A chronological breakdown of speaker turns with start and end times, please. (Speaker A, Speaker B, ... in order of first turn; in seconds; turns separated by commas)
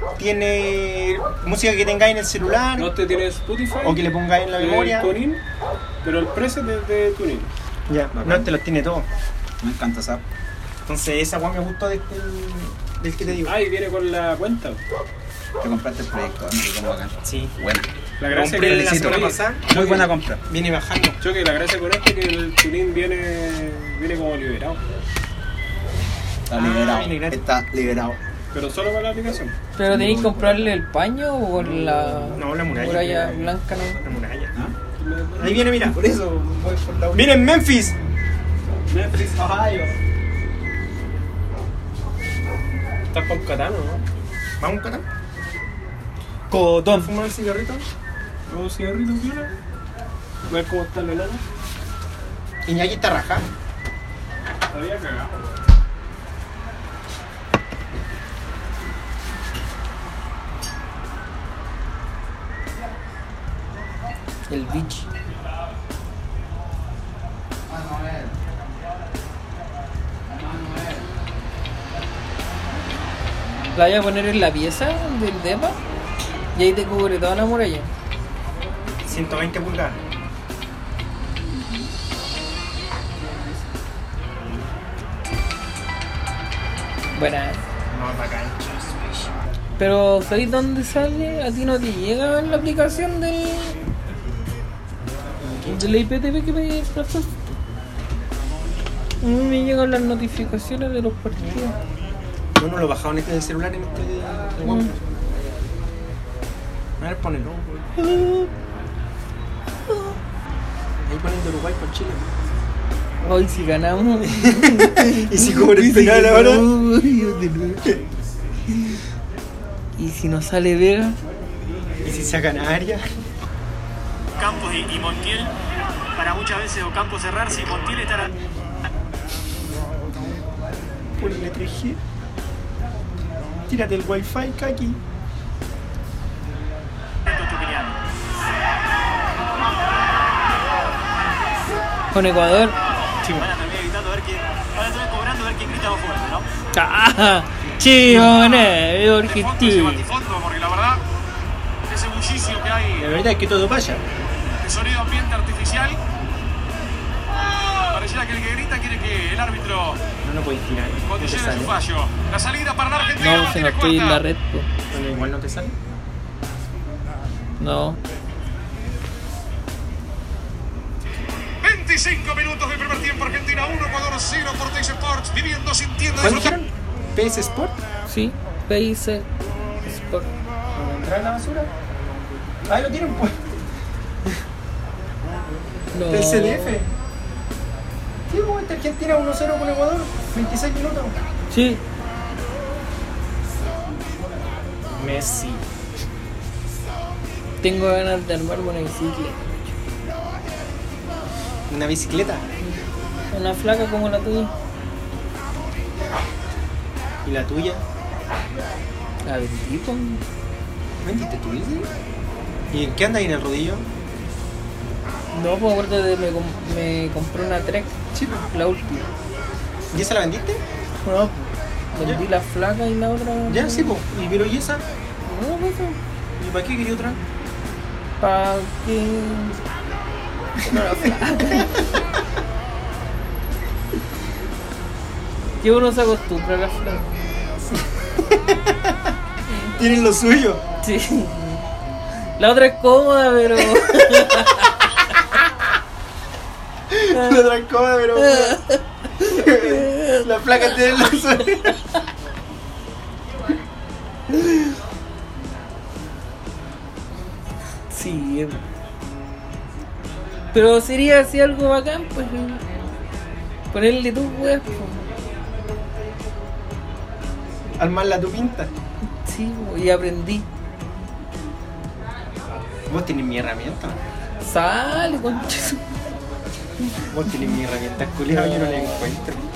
Speaker A: 0.2-2.9, Speaker B: 2.7-5.4, Speaker A: 3.8-5.2, Speaker B: 6.0-7.5, Speaker A: 7.9-9.1, Speaker C: 9.6-10.2, Speaker A: 10.8-13.6, Speaker B: 13.4-14.8, Speaker C: 15.6-20.4, Speaker A: 17.2-17.5, Speaker B: 18.2-20.1, Speaker A: 18.3-19.8, Speaker A: 20.5-21.2, Speaker B: 21.2-24.8, Speaker C: 26.5-28.2, Speaker A: 26.5-27.4, Speaker B: 28.5-29.5, Speaker D: 29.8-34.0, Speaker C: 29.8-30.8, Speaker B: 31.8-32.4, Speaker A: 32.3-34.5, Speaker B: 35.0-35.9, Speaker A: 35.4-36.0, Speaker C: 35.8-37.5, Speaker A: 37.1-38.0, Speaker B: 38.9-39.8, Speaker A: 39.4-39.9, Speaker B: 43.1-44.0, Speaker A: 44.6-45.0, Speaker C: 46.5-47.0, Speaker A: 46.8-47.9, Speaker B: 48.5-49.5, Speaker B: 50.5-51.4, Speaker A: 52.6-53.5, Speaker B: 54.7-55.5, Speaker D: 64.5-65.1, Speaker C: 67.7-68.3, Speaker C: 70.3-71.1, Speaker D: 73.7-75.8, Speaker D: 76.5-77.9, Speaker A: 79.0-80.0, Speaker D: 87.1-87.6, Speaker A: 87.9-89.3, Speaker D: 89.8-93.8, Speaker A: 95.4-95.8, Speaker D: 95.7-97.4, Speaker D: 99.2-101.8, Speaker A: 102.6-105.0, Speaker D: 104.6-104.9, Speaker A: 107.0-107.9, Speaker D: 108.0-108.5, Speaker A: 111.0-112.2, Speaker D: 113.2-117.9, Speaker A: 114.2-116.7, Speaker D: 120.0-121.2, Speaker A: 122.0-123.0, Speaker E: 124.4-125.5, Speaker E: 126.1-128.3, Speaker A: 131.2-132.0, Speaker A: 133.7-135.0, Speaker E: 137.2-138.0, Speaker D: 142.1-142.8, Speaker A: 143.2-143.5, Speaker E: 143.3-146.5, Speaker D: 146.7-150.1, Speaker A: 148.1-148.3, Speaker E: 148.2-151.0, Speaker E: 151.9-153.1, Speaker A: 153.0-154.0, Speaker E: 154.6-156.0, Speaker E: 157.6-160.0, Speaker A: 160.2-161.8, Speaker E: 161.0-164.2, Speaker D: 163.2-164.7, Speaker A: 164.9-165.8, Speaker D: 167.6-168.0, Speaker E: 171.6-176.6, Speaker A: 176.2-177.8, Speaker D: 178.1-179.3, Speaker D: 179.8-180.3, Speaker A: 180.7-181.7, Speaker A: 182.7-183.4, Speaker D: 185.9-186.8, Speaker A: 186.1-186.9, Speaker A: 188.3-191.2, Speaker D: 191.5-191.8, Speaker A: 194.9-195.7, Speaker D: 197.6-199.7, Speaker A: 201.7-202.5, Speaker D: 203.3-204.5, Speaker A: 207.2-207.8, Speaker D: 209.2-210.2, Speaker A: 211.0-211.9, Speaker A: 212.7-213.8, Speaker D: 215.3-218.0, Speaker A: 218.1-218.5, Speaker D: 218.5-219.1, Speaker A: 219.9-220.6, Speaker D: 221.0-224.0, Speaker A: 223.5-224.8, Speaker D: 225.2-226.0, Speaker A: 226.4-227.2, Speaker D: 228.2-229.6, Speaker D: 230.7-231.7, Speaker A: 230.7-231.7, Speaker D: 235.6-237.1, Speaker A: 238.3-239.1, Speaker A: 239.8-240.6, Speaker D: 240.8-241.6, Speaker D: 242.4-244.8, Speaker A: 243.7-244.2, Speaker A: 246.9-248.6, Speaker D: 247.1-247.5, Speaker D: 248.2-250.2, Speaker A: 249.2-251.8, Speaker D: 257.9-258.6, Speaker D: 260.5-262.7, Speaker D: 263.7-265.1, Speaker A: 267.8-268.7, Speaker D: 269.2-270.5, Speaker A: 272.9-274.0, Speaker D: 274.4-275.8, Speaker A: 277.1-279.4, Speaker D: 278.3-279.1